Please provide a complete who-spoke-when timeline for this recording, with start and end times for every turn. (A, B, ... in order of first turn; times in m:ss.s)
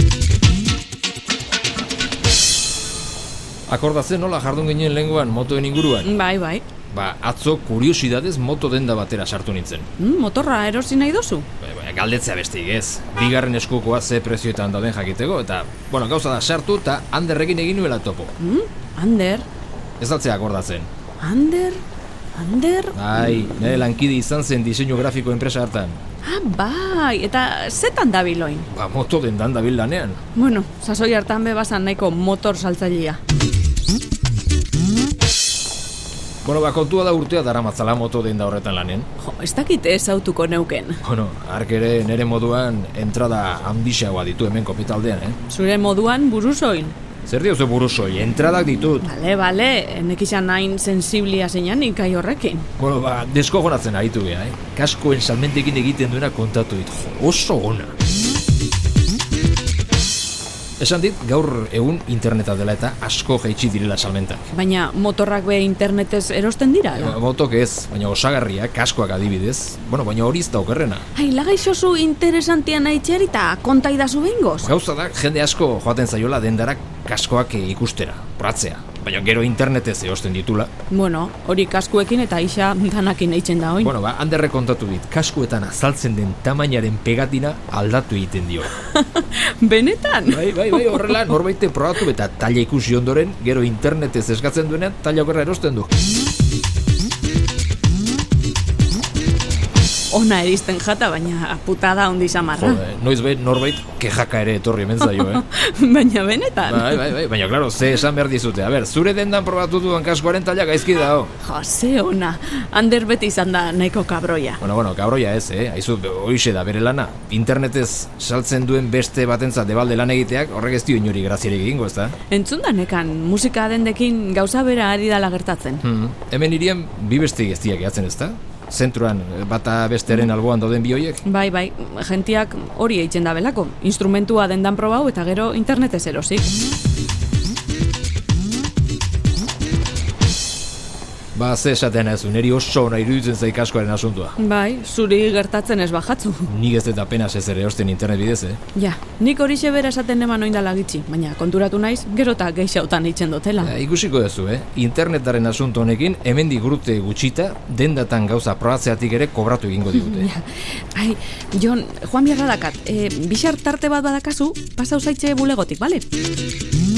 0:03.7-0:06.1 A
0:06.0-0:06.6 B
0:06.9-0:09.9 A
0:10.0-0:11.5 B
0:11.6-0:18.4 A
0:18.4-0:19.5 B
0:20.0-0:20.9 A
0:21.2-0:21.8 B
0:22.3-0:23.8 B
0:22.9-0:26.0 A
0:26.2-0:28.7 B
0:28.7-0:30.2 A
0:30.4-0:33.2 B
0:36.4-0:39.1 A
0:39.2-0:41.0 B
0:41.0-0:45.4 A
0:45.5-0:47.0 B
0:47.2-0:49.0 A
0:49.0-0:52.7 B
0:52.8-0:57.9 A
1:00.8-1:04.5 A
1:04.5-1:07.2 B
1:06.9-1:11.1 A
1:11.2-1:14.7 B
1:14.6-1:20.7 A
1:20.9-1:23.9 B
1:23.8-1:28.8 A
1:28.8-1:31.2 B
1:30.3-1:35.9 A
1:40.1-1:42.8 B
1:42.6-1:45.4 A
1:45.0-1:47.1 B
1:46.6-1:51.3 A
1:51.4-1:54.6 B
1:54.6-2:02.2 A
2:02.3-2:05.8 B
2:05.8-2:11.2 A
2:11.2-2:16.5 B
2:21.3-2:24.4 A
2:24.4-2:26.5 B
2:26.5-2:28.6 A
2:28.7-2:33.8 B
2:33.6-2:40.3 A
2:39.9-2:46.1 B